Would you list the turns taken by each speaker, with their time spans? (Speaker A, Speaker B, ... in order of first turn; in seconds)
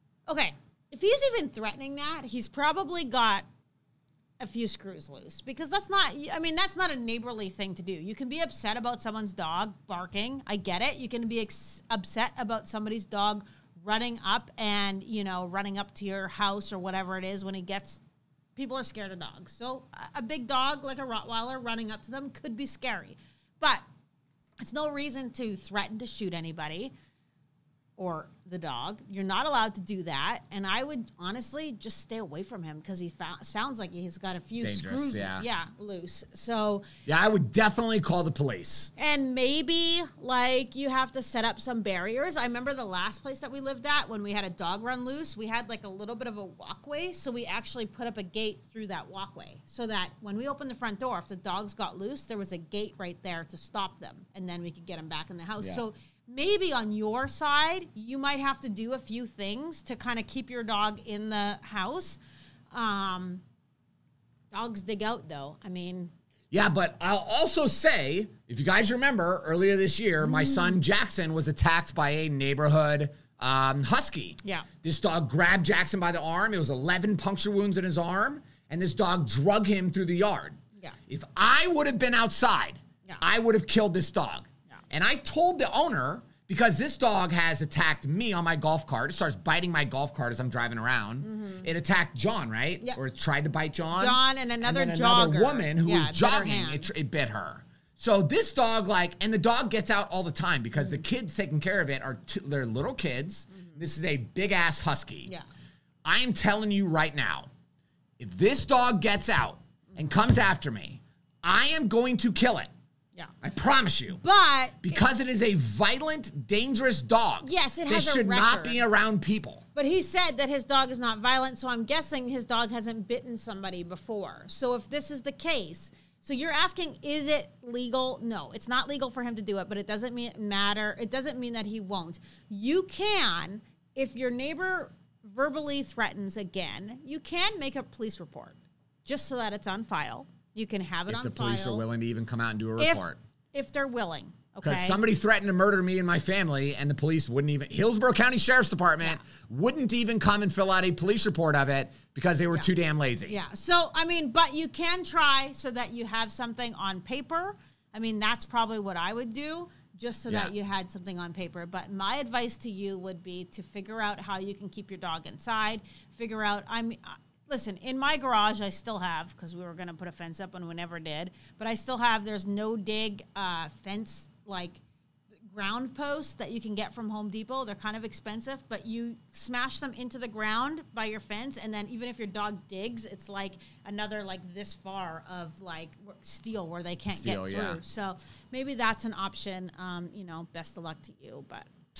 Speaker A: 0.3-3.5, 4.4-18.0, 18.6-23.8, 24.6-26.9, 28.0-36.8, 39.0-62.2, 62.7-63.4, 64.5-66.1, 74.4-74.7, 91.2-91.7, 93.9-96.9, 114.2-115.0, 117.4-118.9, 119.7-141.8, 142.8-145.0, 153.3-174.8, 175.4-191.7
Speaker B: 34.6-35.4, 37.0-38.9, 66.5-105.3, 106.0-107.5, 108.2-112.7, 113.4-114.2, 114.8-119.6, 141.1-143.2, 144.6-153.4, 160.3-160.5, 187.1-187.8